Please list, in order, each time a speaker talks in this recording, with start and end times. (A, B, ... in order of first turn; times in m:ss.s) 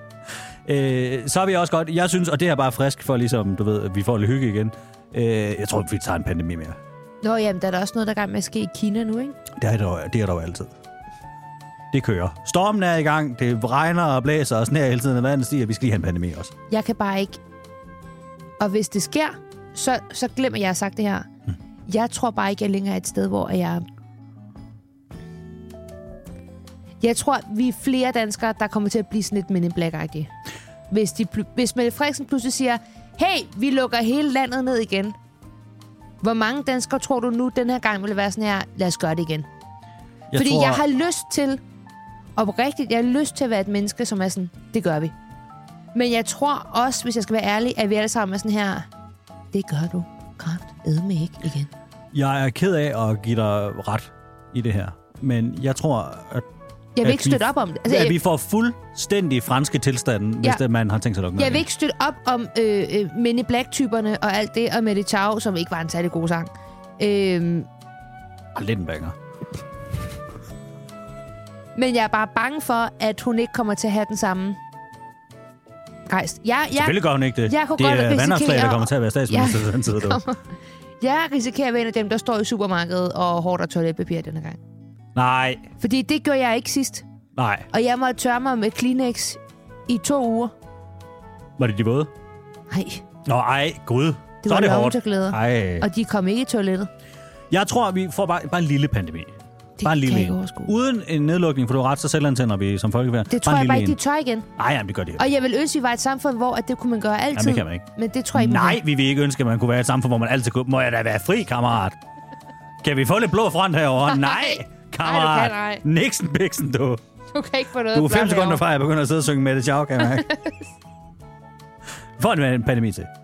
0:00.7-0:06.8 A
0:07.2-0:09.4 B
0:09.6-0:10.7 A
0:11.9-0:16.5 A
0:16.7-0:17.4 B
0:18.6-0:21.3 B
0:21.9-0:23.8 B
0:27.0-0:30.3 B
0:30.9-0:35.2 B
0:36.2-0:39.5 B
0:40.3-0:40.8 A
0:40.4-0:41.6 B
0:42.4-0:45.1 B
0:46.0-0:48.9 B
0:49.5-0:51.7 B
0:52.1-0:56.5 A
0:57.0-0:58.2 B
0:57.0-1:01.6 A
1:01.4-1:07.7 B
1:08.5-1:09.2 A
1:11.8-1:14.6 B
1:16.1-1:20.4 B
1:16.8-1:20.2 A
1:21.0-1:24.6 B
1:25.2-1:25.7 A
1:25.8-1:27.0 B
1:27.4-1:27.7 A
1:27.7-1:30.5 B
1:31.6-1:32.1 A
1:32.7-1:33.0 B
1:33.2-1:35.9 A
1:34.4-1:36.9 B
1:37.5-1:44.0 A
1:39.8-1:40.7 B
1:43.3-1:44.5 B
1:44.6-1:45.2 A
1:45.2-1:48.8 B
1:47.4-1:52.0 A
1:52.8-1:57.0 A
1:54.1-1:55.8 B
1:57.3-1:58.6 B
1:57.9-2:00.3 A
2:00.0-2:00.6 B
2:02.2-2:03.1 A